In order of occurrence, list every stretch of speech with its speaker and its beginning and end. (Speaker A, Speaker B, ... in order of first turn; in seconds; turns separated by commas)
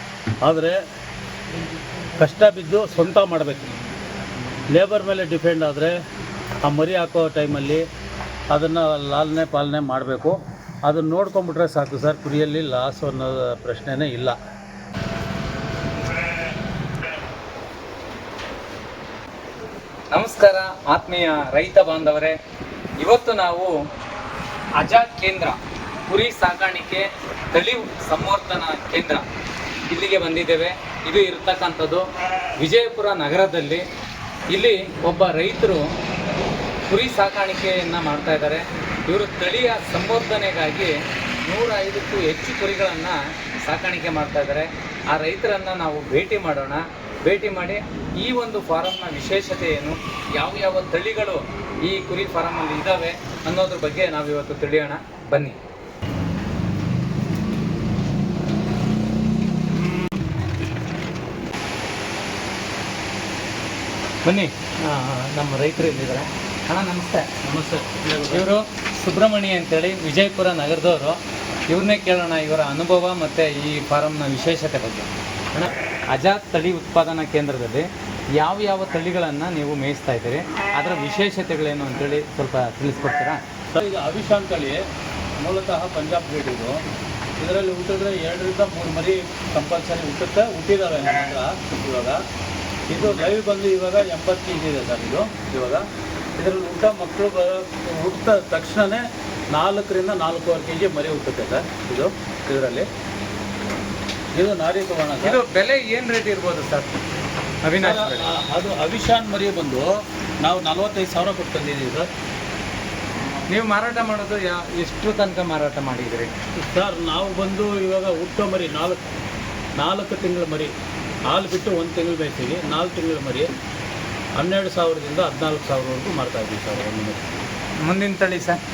Speaker A: 0.4-0.8, Speaker A: 2.1-3.7, Speaker A: 4.7-6.0, Speaker A: 6.6-7.8, Speaker A: 8.5-14.4, Speaker B: 20.1-22.4, Speaker B: 23.0-23.7, Speaker B: 24.8-25.6, Speaker B: 26.1-29.2, Speaker B: 29.9-32.0, Speaker B: 32.6-33.8, Speaker B: 34.5-35.8, Speaker B: 36.9-40.9, Speaker B: 41.5-55.6, Speaker B: 64.2-67.3, Speaker A: 67.4-68.5, Speaker B: 68.3-83.4, Speaker A: 83.7-84.8, Speaker A: 85.4-86.8, Speaker A: 87.4-92.2, Speaker A: 92.9-95.8, Speaker A: 96.4-102.9, Speaker A: 104.4-105.4, Speaker B: 105.2-107.0, Speaker B: 107.6-108.3, Speaker A: 107.8-112.1, Speaker B: 113.5-116.3, Speaker A: 116.6-119.0, Speaker A: 119.8-120.7, Speaker A: 121.3-123.5, Speaker A: 124.4-127.3, Speaker B: 127.8-128.6